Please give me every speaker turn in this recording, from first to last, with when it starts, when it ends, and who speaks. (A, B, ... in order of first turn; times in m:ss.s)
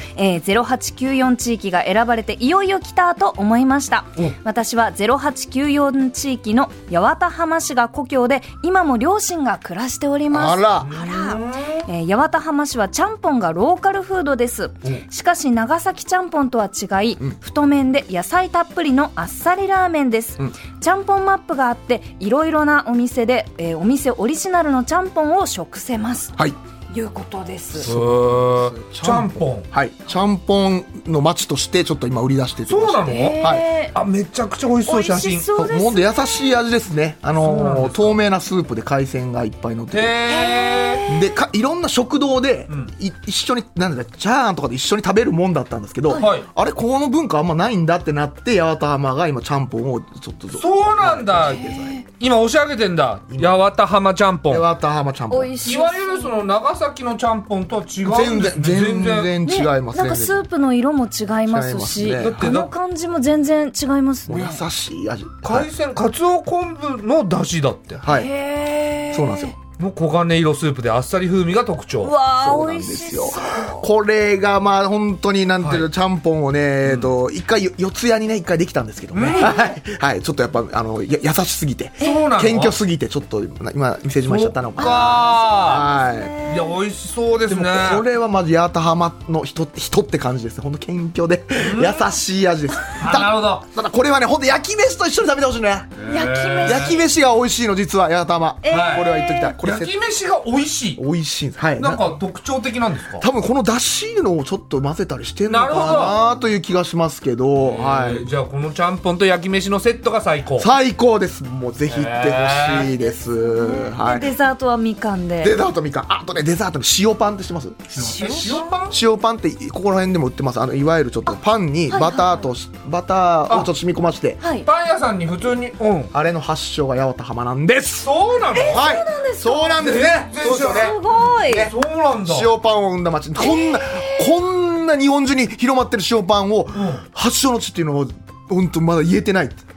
0:00.2-0:26.3 A
0:10.3-0:10.9 B
0:10.8-0:11.9 C
0:26.9-0:27.9 A
0:27.8-0:33.7 B
0:27.8-0:29.7 C
0:32.7-0:35.5 C
0:33.1-0:33.9 A
0:34.8-0:36.1 A
0:35.6-0:40.2 B
0:37.4-0:38.2 C
0:39.9-0:41.0 C
0:40.3-0:41.2 A
0:41.1-0:51.9 B
0:46.1-0:46.4 C
0:50.5-0:54.7 C
0:51.4-0:52.0 A
0:54.5-0:55.6 B
0:55.3-0:56.3 A
0:55.6-0:59.3 C
0:58.0-1:00.4 B
0:59.4-1:04.6 A
1:01.4-1:02.4 B
1:02.2-1:02.7 C
1:04.3-1:05.7 B
1:05.4-1:08.0 C
1:08.0-1:08.3 B
1:08.1-1:09.5 A
1:09.1-1:09.5 B
1:09.8-1:12.1 C
1:12.0-1:13.8 A
1:12.3-1:26.3 B
1:15.6-1:15.9 C
1:16.8-1:17.1 C
1:19.1-1:19.5 C
1:19.2-1:19.6 A
1:22.0-1:22.3 A
1:22.0-1:22.7 C
1:24.3-1:25.9 C
1:24.8-1:26.7 A
1:26.5-1:28.0 C
1:27.5-1:35.9 B
1:31.6-1:32.0 C
1:33.0-1:33.6 C
1:36.0-1:37.0 C
1:36.1-1:37.0 A
1:36.6-1:39.9 B
1:38.6-1:39.5 A
1:38.7-1:39.1 C
1:39.6-1:41.0 C
1:41.0-1:42.1 B
1:41.8-1:43.2 C
1:43.2-1:48.3 B
1:45.5-1:46.2 C
1:47.6-1:50.7 C
1:50.6-1:54.3 B
1:51.9-1:52.9 C
1:53.4-1:55.5 A
1:55.4-2:04.4 B
1:58.0-1:59.0 C
1:58.0-1:58.4 A
2:01.9-2:02.5 A
2:04.4-2:04.7 A
2:04.6-2:06.1 C
2:06.1-2:08.1 B
2:08.0-2:08.8 C
2:08.5-2:09.8 A
2:08.7-2:19.6 B
2:09.8-2:12.5 C
2:10.5-2:11.7 A
2:13.4-2:14.3 A
2:16.7-2:17.0 C